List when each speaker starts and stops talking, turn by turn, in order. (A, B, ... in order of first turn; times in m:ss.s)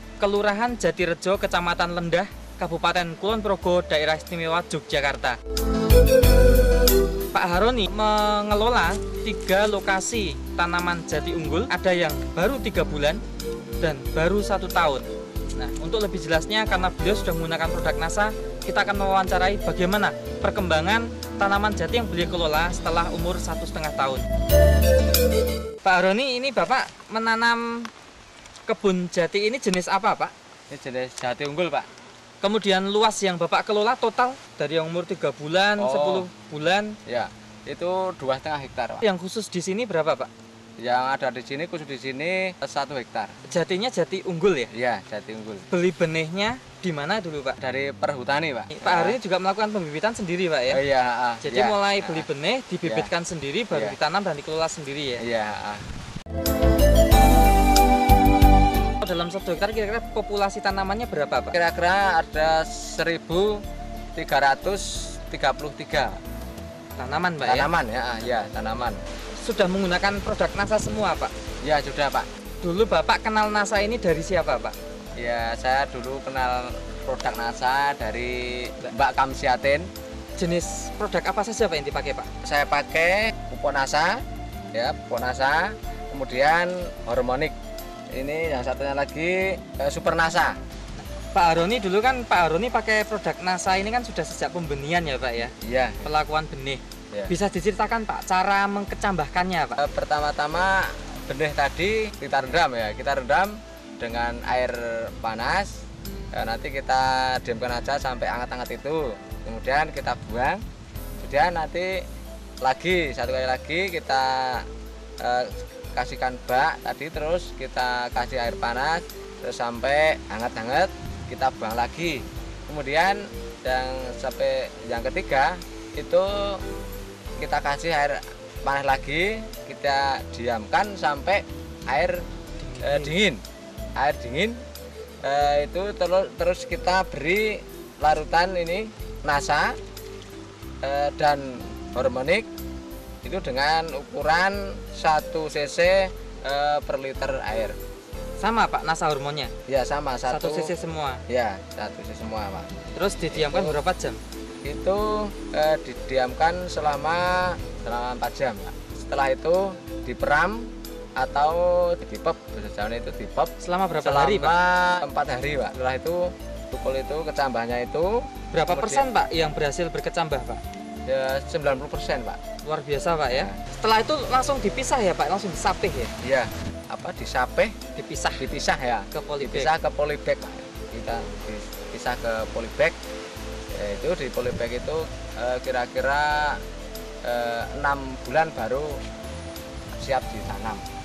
0:00.2-0:05.4 A
0:07.3-0:13.2 A
0:13.8-0:24.2 A
0:25.8-0:27.9 A
0:28.7-0:30.3 A
0:30.7-0:31.9 B
0:32.4-0:37.0 A
0:35.8-0:36.3 B
0:37.0-0:39.0 B
0:39.0-0:40.3 A
0:40.8-0:43.4 B
0:43.5-0:44.7 A
0:44.7-0:45.7 B
0:45.7-0:47.6 A
0:47.6-0:49.2 B
0:48.7-0:50.8 A
0:50.7-0:52.3 B
0:51.4-0:55.2 A
0:52.8-0:53.1 B
0:53.7-0:54.0 B
0:55.2-0:55.9 B
0:59.0-1:01.6 A
1:01.5-1:03.6 B
1:04.1-1:06.2 B
1:07.0-1:07.7 A
1:07.4-1:09.0 B
1:09.4-1:11.3 A
1:11.6-1:12.3 B
1:12.6-1:14.7 A
1:15.2-1:19.9 B
1:20.4-1:22.3 A
1:22.4-1:24.2 B
1:24.7-1:27.5 B
1:28.1-1:30.6 B
1:31.0-1:39.8 A
1:35.6-1:36.1 B
1:39.8-1:45.8 B
1:46.3-1:50.6 B
1:51.2-1:52.0 B
1:52.6-1:54.6 B
1:55.2-2:06.6 B
2:07.4-2:12.2 B
2:12.6-2:13.1 A
2:12.8-2:13.4 B
2:14.0-2:14.6 B
2:15.2-2:19.8 B
2:20.8-2:22.5 B
2:23.2-2:27.8 B
2:28.4-2:29.5 A
2:29.7-2:30.7 B
2:30.3-2:31.2 A
2:31.3-2:32.7 B
2:32.9-2:34.2 A
2:33.3-2:33.8 B
2:34.6-2:43.5 B
2:43.6-2:44.5 A
2:44.0-2:49.0 B
2:48.5-2:50.6 A
2:51.1-2:52.4 B
2:52.6-2:56.1 A
2:53.3-2:53.6 B
2:56.2-2:57.7 B
2:58.0-2:58.5 A
2:58.4-3:03.0 B
2:59.1-2:59.7 A
3:03.7-3:06.6 B
3:07.2-3:09.0 B
3:09.9-3:10.8 B